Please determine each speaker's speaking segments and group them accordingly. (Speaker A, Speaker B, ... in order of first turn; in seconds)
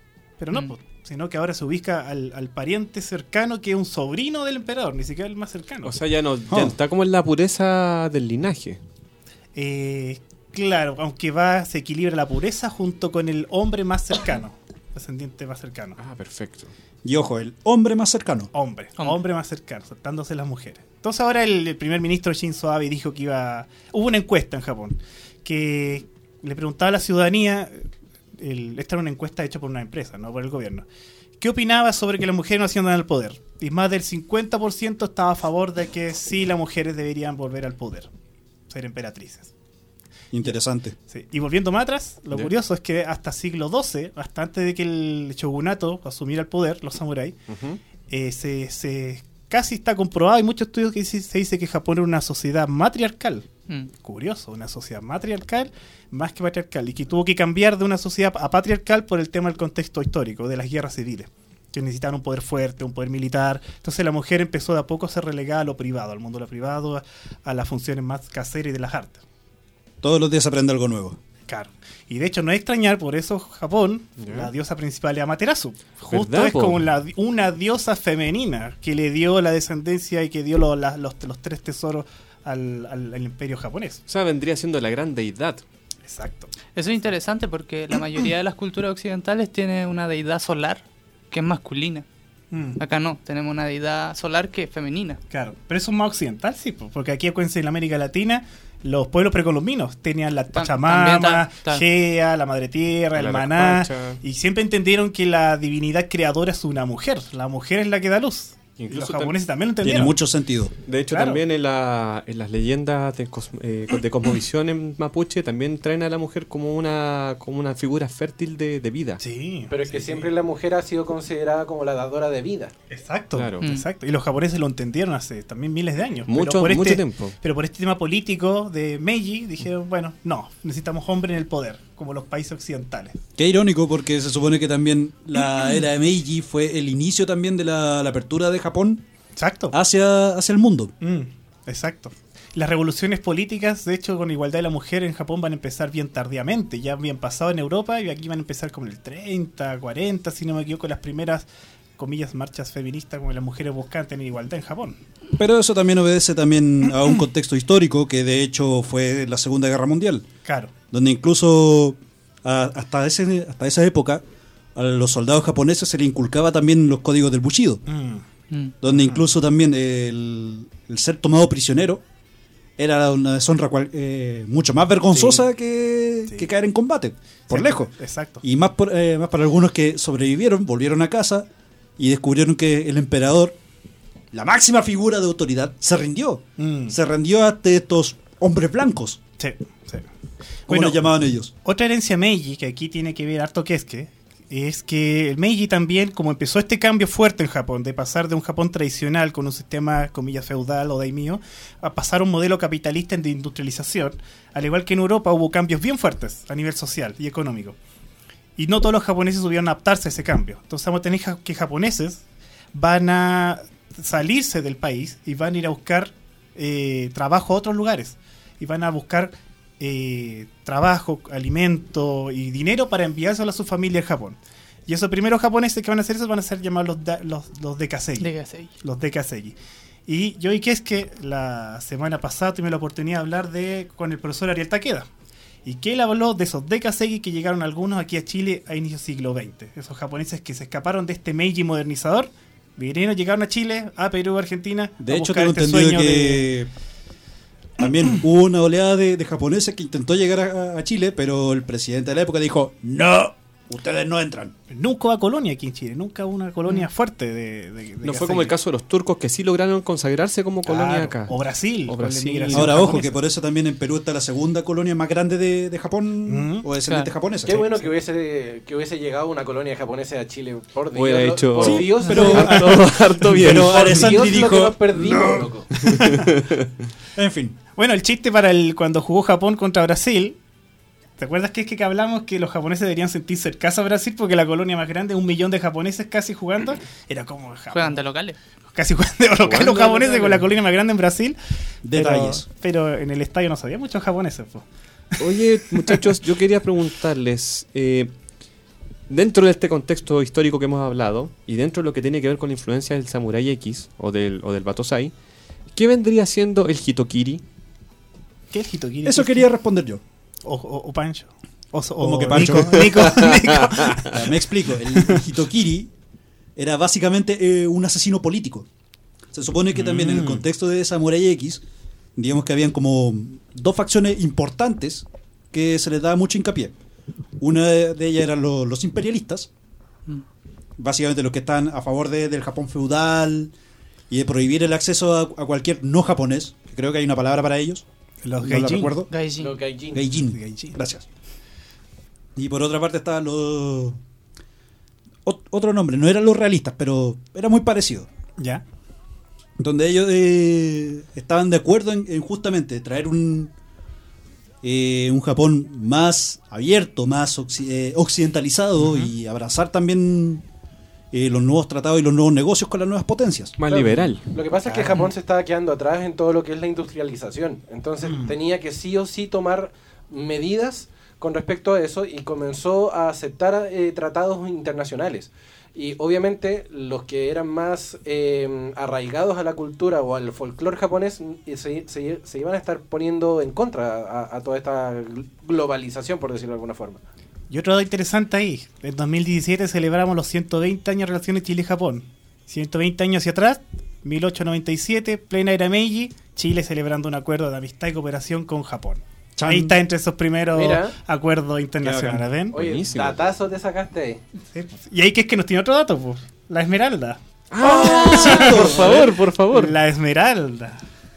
Speaker A: 0.4-5.9, 9.5-16.0, 18.5-30.9, 31.4-38.1, 38.7-39.5, 41.1-47.4, 48.1-53.5, 54.0-69.2, 71.5-84.0, 86.0-86.5, 92.5-92.8, 95.3-110.2, 111.1-111.4, 119.2-120.3, 122.9-133.2, 139.3-139.7, 141.0-151.5, 152.0-155.0, 160.4-160.7, 167.8-168.2, 168.9-169.2, 175.1-175.4, 176.2-176.5, 177.5-178.4, 186.6-186.9, 189.4-190.1, 190.7-191.1, 191.6-207.8, 208.6-212.2, 212.7-228.3, 228.8-229.5, 230.1-235.1, 235.7-246.4, 254.7-258.5, 260.6-263.1, 266.3-266.6, 277.8-280.4, 281.2-288.0, 288.7-291.4, 291.9-294.6, 308.5-309.5, 310.4-314.2, 314.9-315.2, 319.7-320.4, 338.2-338.9, 340.1-340.8, 348.4-348.6, 358.8-359.1, 368.0-368.3, 387.5-402.5, 404.5-410.8
Speaker B: 5.8-8.8, 16.0-16.7, 47.5-47.8, 74.2-74.5, 76.0-76.8, 84.1-85.6, 103.1-104.2, 108.8-109.3, 110.8-119.2, 123.3-123.6, 126.3-127.3, 258.0-261.4, 261.9-262.9, 270.9-274.2, 275.8-276.7, 289.4-290.4, 295.2-298.1, 299.1-305.1, 305.7-307.4, 313.0-314.0, 363.6-364.3, 402.5-403.2, 407.5-409.8
Speaker C: 6.5-6.8, 17.0-18.5, 40.3-41.0, 70.0-71.2, 109.8-110.7, 133.4-139.0, 139.7-140.9, 155.4-160.2, 160.9-164.2, 164.7-167.8, 168.8-172.0, 172.8-183.6, 184.3-189.2, 190.7-191.5, 245.0-246.7, 247.8-254.5, 262.5-267.7, 271.6-275.5, 277.1-277.6, 291.8-292.4, 309.0-310.0, 312.0-313.1, 314.0-315.9, 316.6-318.6, 319.3-321.6, 322.1-326.7, 327.4-329.5, 330.8-333.5, 334.1-337.8, 338.4-339.1, 339.9-341.1, 342.4-344.0, 345.2-348.1, 349.6-353.5, 354.6-360.4, 361.1-363.5, 399.4-399.8, 401.8-402.2, 407.7-408.8
Speaker D: 86.8-92.0, 92.8-95.2, 100.5-101.8, 123.6-123.9, 228.2-228.7, 287.7-288.4, 339.1-339.6
Speaker E: 119.7-122.7, 267.4-272.8, 273.4-275.7, 339.4-340.0, 363.7-387.0, 400.5-400.9, 402.5-404.2, 407.7-408.2